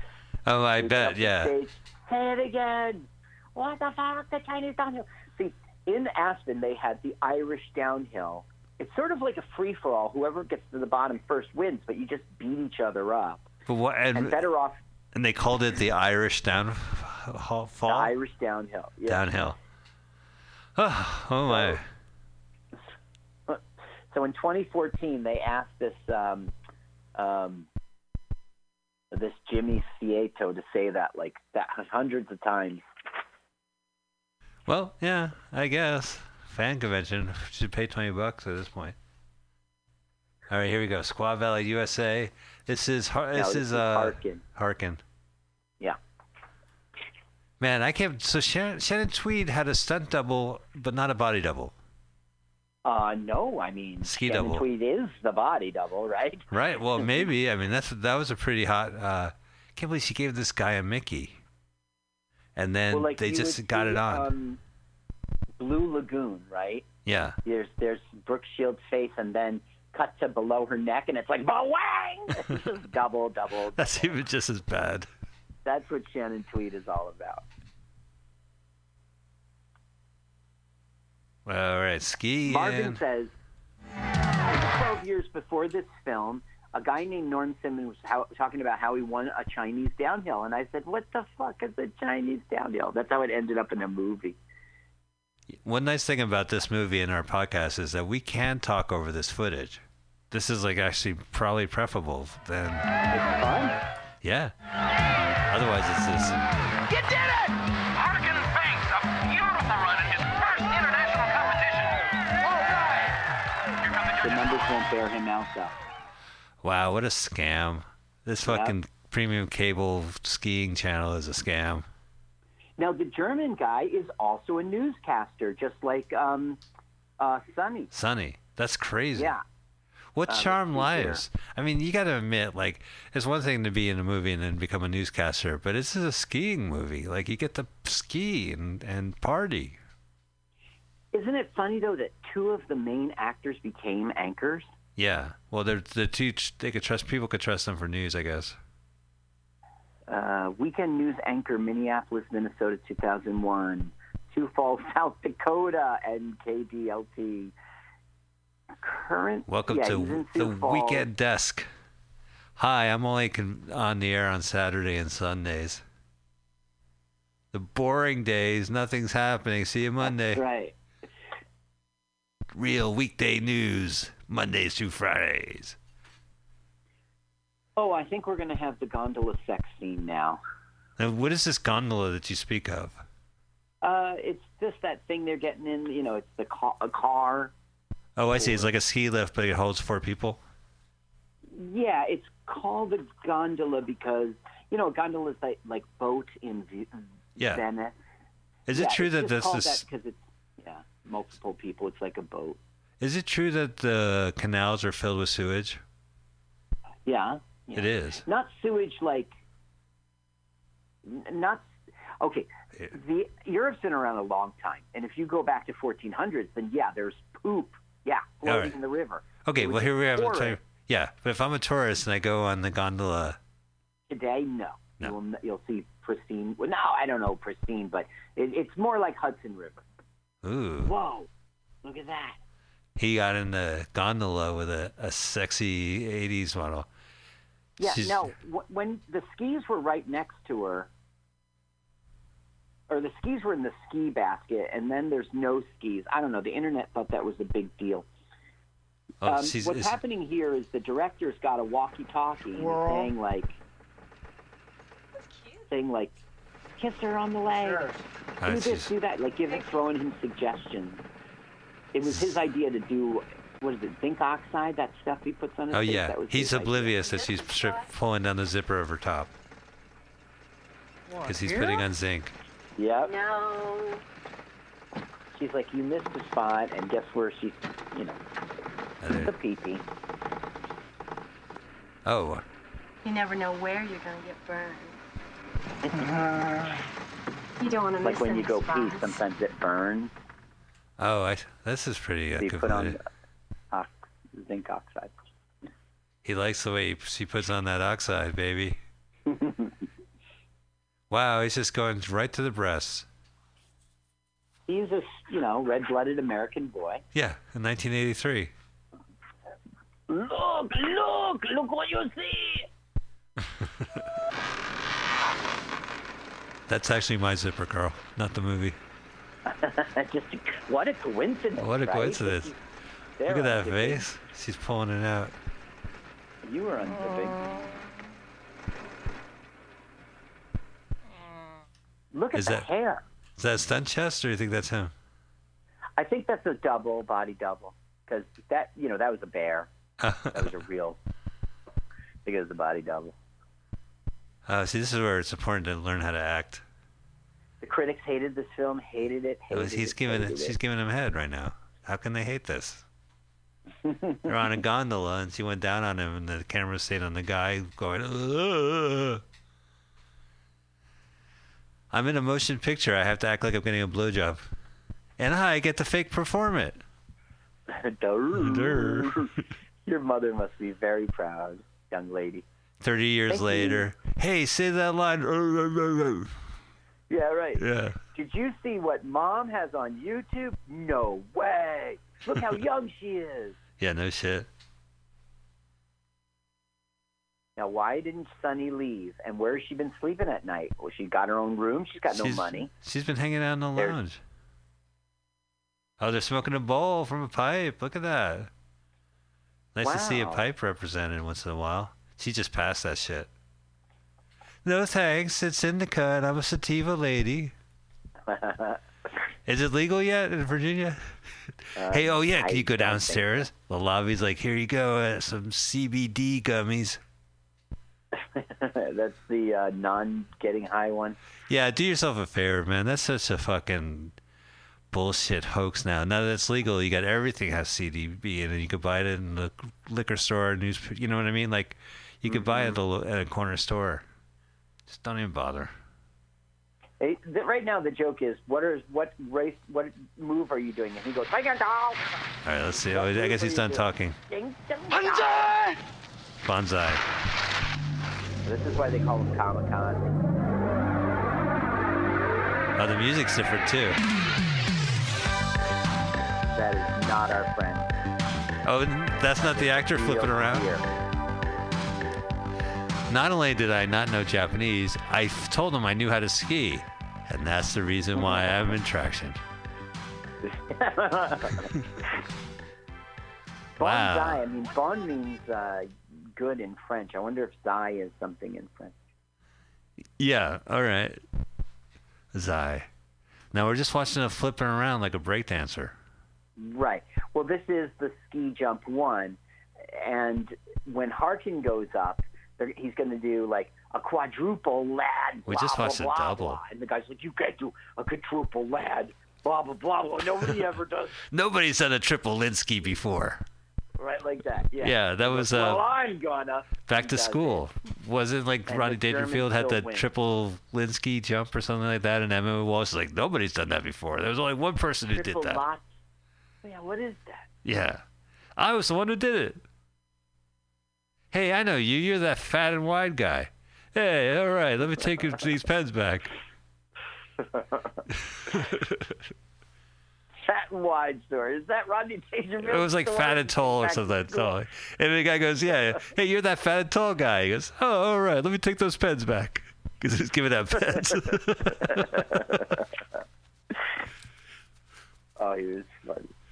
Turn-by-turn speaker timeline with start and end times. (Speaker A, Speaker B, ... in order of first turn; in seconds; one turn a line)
Speaker A: 0.5-1.5
Speaker B: 0.8-13.4
Speaker A: 13.7-14.5
Speaker B: 14.1-14.8
Speaker A: 15.1-18.1
Speaker B: 17.9-19.3
Speaker A: 19.1-19.6
Speaker A: 20.8-21.9
Speaker B: 21.5-21.8
Speaker B: 24.1-26.5
Speaker B: 27.1-27.7
Speaker B: 29.1-32.8
Speaker A: 34.6-39.0
Speaker A: 40.5-45.0
Speaker B: 43.3-44.4
Speaker A: 47.6-51.7
Speaker B: 52.8-56.5
Speaker A: 54.0-54.6
Speaker A: 56.5-61.4
Speaker A: 62.5-64.3
Speaker B: 62.9-64.6
Speaker B: 65.6-66.9
Speaker A: 67.0-67.4
Speaker B: 67.5-74.2
Speaker A: 73.8-75.1
Speaker B: 75.6-77.4
Speaker A: 81.5-83.0
Speaker B: 82.5-83.3
Speaker B: 84.5-94.4
Speaker A: 95.6-102.9
Speaker B: 103.1-103.7
Speaker A: 104.2-104.5
Speaker A: 105.5-106.4
Speaker C: 106.9-113.2
Speaker C: 113.9-114.2
Speaker B: 114.2-115.7
Speaker A: 116.6-121.9
Speaker B: 118.5-118.7
Speaker B: 122.8-126.6
Speaker B: 127.2-127.9
Speaker A: 127.9-129.3
Speaker B: 129.2-129.4
Speaker A: 130.1-139.8
Speaker B: 130.3-131.2
Speaker B: 141.1-144.7
Speaker A: 144.9-148.6
Speaker B: 150.1-157.5
Speaker B: 158.8-161.1
Speaker A: 159.5-161.7
Speaker A: 162.6-165.8
Speaker A: 167.5-170.4
Speaker B: 170.0-170.8
Speaker A: 172.5-175.8
Speaker B: 177.8-180.4
Speaker A: 181.0-183.0
Speaker B: 183.8-187.5
Speaker A: 188.2-190.4
Speaker B: 188.4-188.7
Speaker B: 191.5-197.9
Speaker A: 197.4-197.6
Speaker A: 198.7-199.8
Speaker B: 198.7-202.6
Speaker A: 203.0-205.8
Speaker B: 207.1-209.3
Speaker A: 207.7-208.2
Speaker B: 211.0-211.7
Speaker B: 212.2-220.6
Speaker A: 218.4-218.7
Speaker A: 219.4-223.4
Speaker B: 224.1-229.8
Speaker A: 230.4-230.9
Speaker B: 230.8-231.3
Speaker B: 231.8-232.4
Speaker A: 233.0-236.9
Speaker B: 237.8-240.9
Speaker A: 237.8-238.3
Speaker B: 242.9-248.1
Speaker A: 249.2-250.0
Speaker B: 249.3-253.6
Speaker B: 255.7-256.1
Speaker B: 256.8-257.9
Speaker A: 258.4-258.9
Speaker B: 258.4-261.0
Speaker B: 261.9-267.0
Speaker A: 265.7-269.3
Speaker D: 267.0-267.9
Speaker D: 271.1-271.9
Speaker A: 271.3-272.3
Speaker B: 272.8-273.1
Speaker D: 273.1-274.0
Speaker B: 275.3-278.2
Speaker A: 279.0-279.3
Speaker B: 279.1-279.8
Speaker A: 282.1-282.4
Speaker D: 283.0-285.0
Speaker D: 287.6-289.2
Speaker B: 288.0-290.1
Speaker A: 291.0-293.0
Speaker B: 292.4-293.0
Speaker B: 293.7-295.1
Speaker A: 296.2-298.8
Speaker B: 299.3-299.7
Speaker A: 301.1-303.1
Speaker B: 304.7-307.0
Speaker A: 307.1-308.5
Speaker B: 310.1-312.7
Speaker A: 316.7-318.8
Speaker B: 319.5-322.6
Speaker A: 321.6-322.5
Speaker B: 323.2-324.0
Speaker A: 323.3-325.3
Speaker B: 326.4-327.4
Speaker B: 332.1-333.0
Speaker A: 332.3-332.7
Speaker A: 333.4-334.9
Speaker B: 336.0-339.7
Speaker A: 340.0-340.5
Speaker B: 340.3-341.0
Speaker B: 342.2-343.1
Speaker A: 344.5-346.6
Speaker B: 347.6-350.6
Speaker A: 349.5-352.8
Speaker B: 353.8-354.3
Speaker A: 354.2-359.2
Speaker A: 361.9-364.5
Speaker A: 365.2-366.8
Speaker B: 367.7-369.3
Speaker A: 368.3-369.3
Speaker B: 369.9-372.4
Speaker A: 372.8-376.3
Speaker B: 373.3-373.9
Speaker B: 377.1-383.6
Speaker A: 377.6-378.0
Speaker A: 383.8-384.5
Speaker B: 387.6-392.7
Speaker A: 392.1-394.2
Speaker A: 396.0-398.5
Speaker A: 399.8-403.3
Speaker B: 399.8-400.4
Speaker A: 404.6-407.5
Speaker B: 408.3-408.8
Speaker A: 409.5-411.1
Speaker B: 411.8-413.5
Speaker A: 411.9-417.0
Speaker B: 418.1-421.2
Speaker A: 421.5-424.2
Speaker A: 424.9-434.0
Speaker B: 432.3-432.8
Speaker A: 434.9-435.7
Speaker B: 437.0-442.1
Speaker A: 442.4-444.2
Speaker B: 442.9-445.6
Speaker A: 446.4-447.0
Speaker B: 448.4-450.2
Speaker A: 452.8-454.0
Speaker B: 456.5-457.9
Speaker A: 458.6-460.7
Speaker B: 459.5-460.8
Speaker A: 463.1-469.4
Speaker B: 468.2-468.5
Speaker B: 470.4-471.7
Speaker A: 473.8-474.4
Speaker B: 473.8-478.9
Speaker A: 480.2-481.2
Speaker A: 482.3-482.9
Speaker A: 483.5-486.0
Speaker B: 486.6-489.4
Speaker B: 489.9-501.2
Speaker A: 495.5-496.6
Speaker A: 501.3-503.4
Speaker B: 504.0-507.6
Speaker A: 504.8-505.8
Speaker A: 506.9-515.6
Speaker B: 508.7-510.1
Speaker B: 515.1-515.9
Speaker B: 516.6-517.5
Speaker A: 517.6-518.0
Speaker A: 518.5-519.6
Speaker A: 521.3-526.3
Speaker B: 527.5-527.9
Speaker A: 528.5-529.0
Speaker B: 530.4-534.5
Speaker A: 532.6-542.4
Speaker B: 541.9-542.8
Speaker B: 545.4-546.3